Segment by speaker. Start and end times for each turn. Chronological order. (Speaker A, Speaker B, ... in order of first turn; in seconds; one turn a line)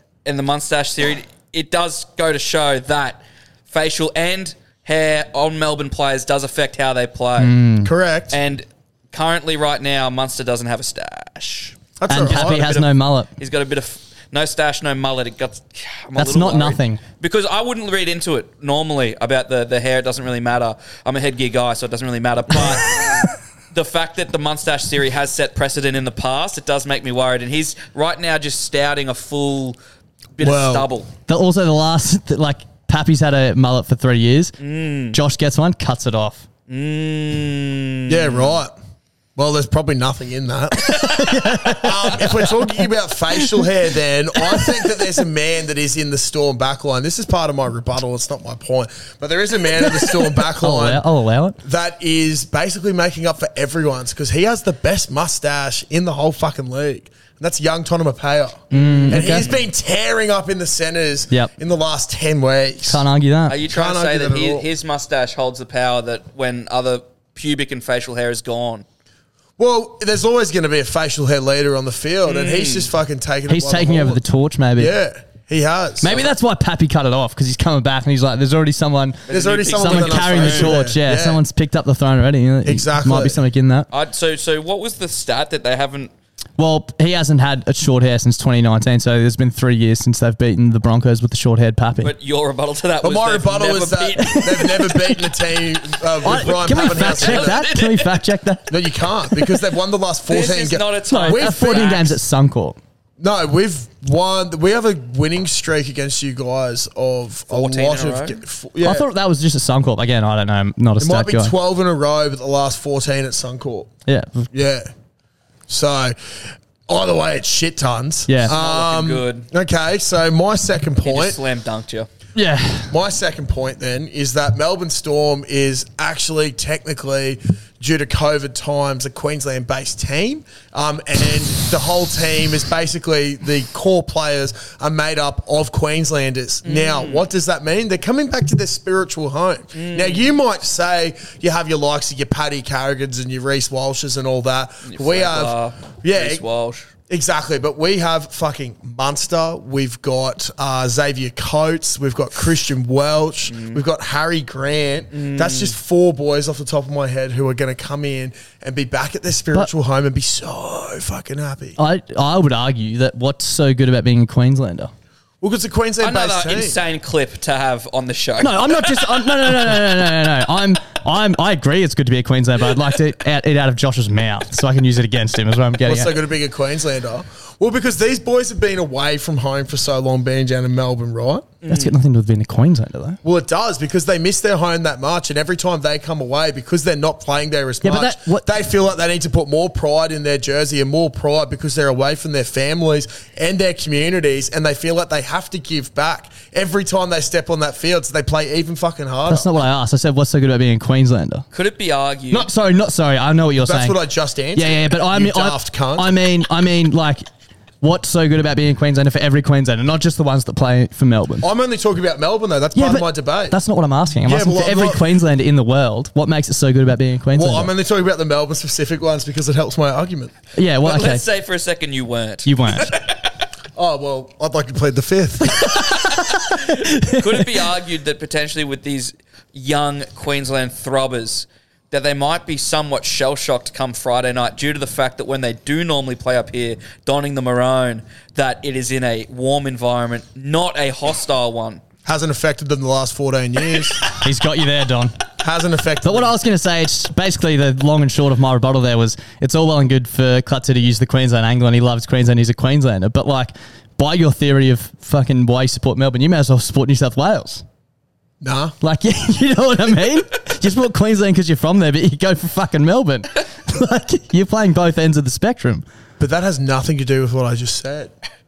Speaker A: 0.2-7.5
Speaker B: 7.4-7.9
Speaker C: 7.8-8.4
Speaker A: 8.3-29.8
Speaker C: 12.0-12.7
Speaker B: 12.1-13.3
Speaker B: 16.2-17.0
Speaker A: 30.4-31.1
Speaker C: 30.4-30.9
Speaker B: 31.3-34.5
Speaker A: 34.6-35.1
Speaker B: 35.1-36.4
Speaker A: 36.7-38.6
Speaker C: 38.1-38.8
Speaker C: 39.4-51.0
Speaker B: 41.0-42.5
Speaker B: 43.4-43.6
Speaker B: 44.4-44.8
Speaker B: 50.4-51.6
Speaker C: 51.6-63.0
Speaker B: 58.7-59.5
Speaker A: 58.8-59.4
Speaker B: 62.9-63.6
Speaker A: 63.5-68.8
Speaker C: 63.7-64.7
Speaker C: 69.6-74.2
Speaker A: 72.2-72.9
Speaker B: 73.5-74.9
Speaker C: 74.8-76.2
Speaker B: 76.0-79.2
Speaker A: 79.3-80.9
Speaker C: 79.3-81.4
Speaker B: 79.7-83.9
Speaker C: 82.6-83.4
Speaker A: 83.9-86.1
Speaker B: 86.6-92.1
Speaker A: 92.0-94.7
Speaker C: 93.0-97.6
Speaker B: 94.2-95.2
Speaker B: 96.2-99.5
Speaker A: 96.3-98.2
Speaker C: 98.7-102.0
Speaker A: 100.3-102.2
Speaker B: 101.1-102.8
Speaker C: 103.2-109.0
Speaker A: 107.5-108.4
Speaker B: 108.8-111.5
Speaker C: 111.0-113.9
Speaker B: 114.1-114.5
Speaker C: 114.5-114.9
Speaker C: 115.7-121.4
Speaker B: 118.3-118.5
Speaker A: 118.5-119.5
Speaker A: 121.0-122.1
Speaker B: 122.3-122.9
Speaker C: 122.9-146.4
Speaker A: 136.6-137.2
Speaker A: 139.7-140.2
Speaker A: 144.9-146.9
Speaker C: 147.1-161.8
Speaker A: 153.5-153.8
Speaker A: 155.1-155.8
Speaker B: 161.8-164.9
Speaker C: 165.4-166.8
Speaker A: 166.0-169.1
Speaker B: 168.4-176.2
Speaker C: 175.8-181.5
Speaker A: 181.6-181.9
Speaker B: 181.7-183.2
Speaker C: 183.2-199.5
Speaker B: 187.8-188.5
Speaker B: 199.3-201.4
Speaker A: 201.5-202.5
Speaker B: 202.3-204.0
Speaker C: 203.6-206.2
Speaker B: 204.5-207.2
Speaker B: 207.8-211.4
Speaker C: 211.4-213.6
Speaker B: 212.7-217.7
Speaker C: 214.2-215.1
Speaker C: 217.3-220.3
Speaker B: 220.6-221.2
Speaker A: 220.8-223.3
Speaker B: 222.4-222.9
Speaker C: 223.8-225.7
Speaker B: 225.6-227.5
Speaker A: 225.7-241.8
Speaker C: 242.0-244.0
Speaker B: 244.1-245.2
Speaker C: 245.4-246.3
Speaker B: 246.0-257.6
Speaker C: 258.4-258.7
Speaker B: 258.8-265.8
Speaker C: 266.2-268.1